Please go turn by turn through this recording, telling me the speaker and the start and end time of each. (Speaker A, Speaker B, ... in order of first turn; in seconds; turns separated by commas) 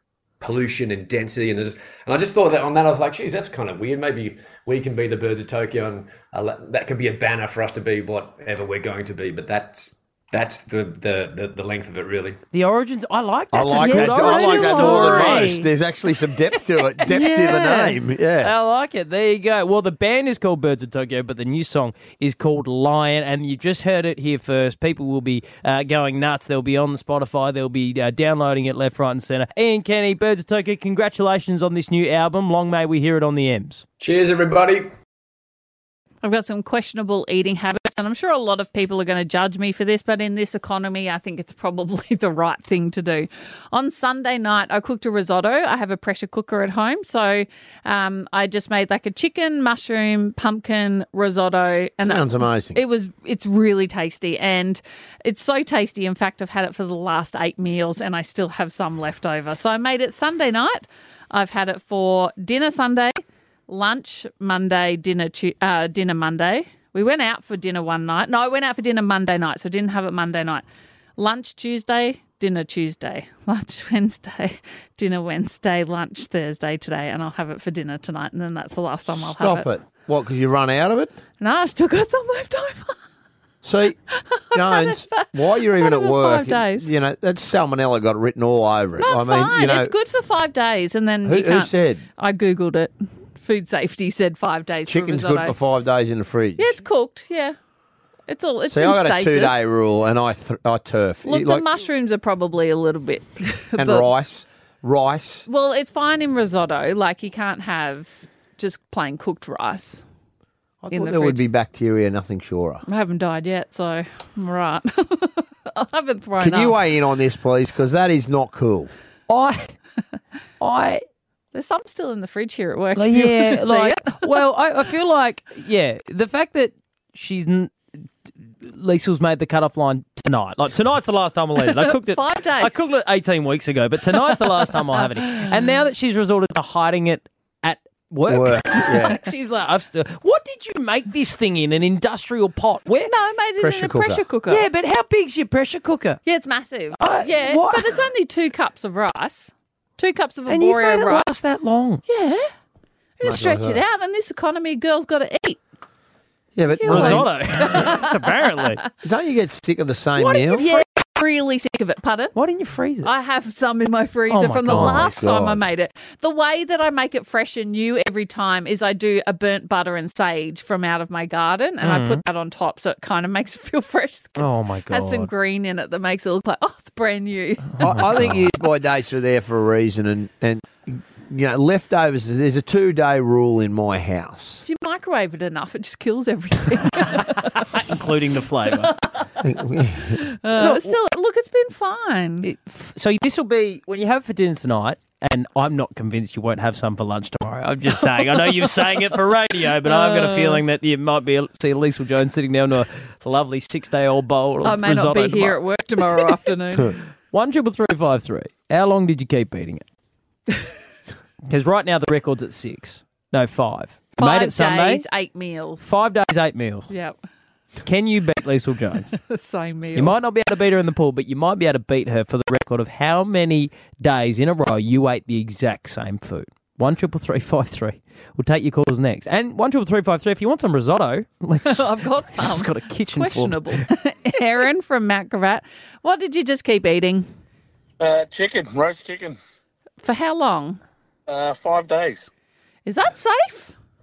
Speaker A: 0.4-12.4, Speaker B: 12.5-15.6, Speaker C: 13.5-18.5, Speaker D: 13.8-15.7, Speaker B: 17.1-33.8, Speaker D: 17.1-17.4, Speaker A: 34.0-34.9, Speaker D: 36.2-70.6, Speaker C: 52.0-52.8, Speaker D: 71.2-79.7, Speaker C: 79.1-81.1, Speaker D: 81.4-83.0, Speaker C: 83.6-84.0, Speaker D: 84.1-86.9, Speaker C: 84.5-89.9, Speaker D: 89.0-95.6, Speaker C: 91.2-92.0, Speaker C: 94.9-96.8, Speaker D: 96.6-97.6, Speaker D: 98.3-99.6, Speaker C: 98.7-101.7, Speaker D: 101.3-104.1, Speaker C: 103.8-105.5, Speaker D: 105.5-110.0, Speaker C: 110.8-112.8, Speaker D: 110.9-111.4, Speaker D: 112.9-116.8, Speaker C: 116.4-118.9, Speaker B: 119.3-119.7, Speaker B: 120.6-121.0, Speaker D: 121.5-124.2, Speaker B: 123.0-127.8, Speaker B: 128.6-143.1, Speaker D: 131.6-132.9, Speaker D: 135.0-135.5, Speaker C: 138.3-139.2, Speaker D: 143.1-144.7, Speaker C: 143.6-144.2, Speaker B: 144.5-146.2, Speaker D: 146.2-151.3, Speaker B: 147.0-147.9, Speaker B: 150.5-152.0, Speaker D: 152.1-152.5, Speaker D: 153.2-155.6, Speaker C: 153.2-153.8, Speaker C: 156.6-157.8, Speaker D: 156.8-158.2, Speaker B: 156.9-158.8, Speaker C: 159.0-160.7, Speaker B: 160.2-160.8, Speaker D: 160.5-162.4, Speaker B: 162.3-163.1, Speaker D: 163.0-178.1, Speaker B: 164.3-165.1, Speaker C: 164.7-165.6, Speaker B: 171.8-172.2, Speaker B: 174.4-175.3, Speaker B: 177.8-178.4, Speaker C: 177.8-184.6, Speaker D: 184.6-187.6, Speaker B: 187.1-188.9, Speaker D: 188.8-189.3, Speaker C: 189.4-190.2, Speaker D: 190.2-192.5, Speaker B: 190.6-190.9, Speaker B: 192.4-206.1, Speaker D: 198.0-198.8, Speaker D: 199.8-200.6, Speaker D: 204.6-207.0, Speaker B: 207.3-209.8, Speaker B: 211.4-215.0, Speaker D: 214.2-215.8, Speaker B: 215.8-216.9, Speaker D: 216.9-217.2, Speaker B: 217.8-219.2, Speaker D: 219.3-220.1, Speaker B: 219.9-233.8, Speaker D: 231.6-237.3, Speaker E: 238.0-239.4, Speaker D: 240.0-240.8, Speaker E: 241.3-242.3, Speaker D: 242.9-243.7